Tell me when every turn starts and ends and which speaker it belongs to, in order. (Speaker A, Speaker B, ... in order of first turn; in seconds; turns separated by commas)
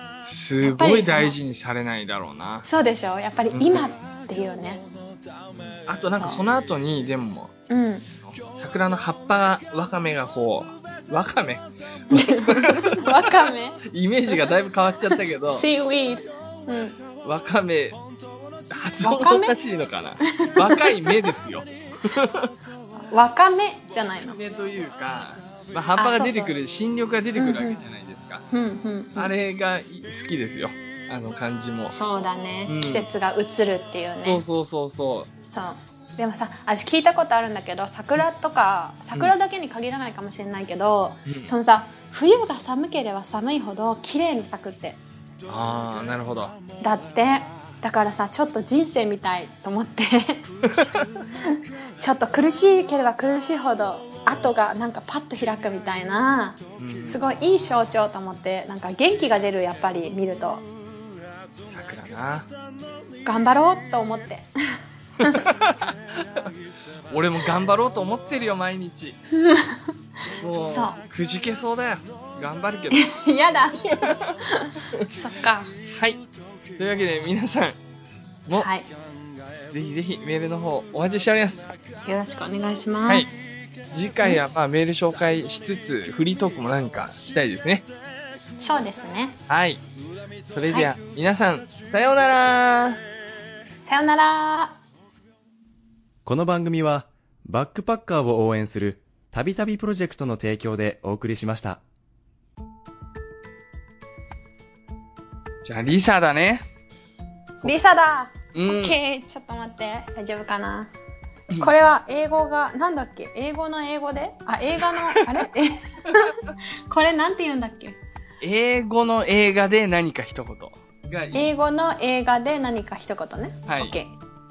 Speaker A: 0.2-2.6, Speaker B: 0.6-1.3, Speaker B: 2.6-4.8, Speaker A: 3.5-3.9, Speaker A: 5.9-7.5, Speaker B: 6.1-6.4, Speaker B: 7.7-8.1, Speaker A: 8.2-15.7, Speaker B: 12.1-14.5, Speaker B: 15.1-17.0, Speaker A: 17.2-18.0, Speaker A: 18.7-22.5, Speaker B: 19.0-19.5, Speaker B: 20.3-21.3, Speaker B: 23.0-24.4, Speaker A: 24.2-28.4, Speaker B: 25.9-26.6, Speaker B: 27.3-27.8, Speaker B: 28.5-29.3, Speaker A: 29.1-31.9, Speaker B: 31.9-34.4, Speaker A: 32.7-33.1, Speaker A: 34.2-35.3, Speaker B: 35.4-45.0, Speaker A: 45.5-46.5, Speaker B: 46.8-50.5, Speaker A: 50.6-51.1, Speaker B: 51.4-60.6, Speaker A: 56.8-57.2, Speaker A: 61.7-62.5, Speaker B: 63.2-64.5, Speaker B: 65.2-65.5, Speaker A: 65.2-66.5, Speaker A: 67.1-69.2, Speaker B: 69.3-69.9, Speaker A: 70.4-73.1, Speaker B: 70.6-71.0, Speaker B: 72.9-75.7, Speaker A: 73.9-74.3, Speaker A: 75.9-76.2, Speaker A: 76.8-77.8, Speaker B: 78.5-78.9, Speaker A: 79.7-81.7, Speaker B: 82.0-83.4, Speaker A: 83.9-87.9, Speaker B: 88.6-89.4, Speaker A: 89.5-89.8, Speaker A: 90.5-93.0, Speaker B: 93.8-94.8, Speaker C: 96.2-101.8, Speaker A: 105.6-106.6, Speaker B: 107.6-110.9, Speaker A: 108.5-109.0, Speaker B: 111.5-116.4, Speaker A: 114.8-115.2, Speaker B: 116.9-118.0, Speaker A: 118.4-121.5, Speaker B: 121.3-124.2, Speaker A: 123.7-124.0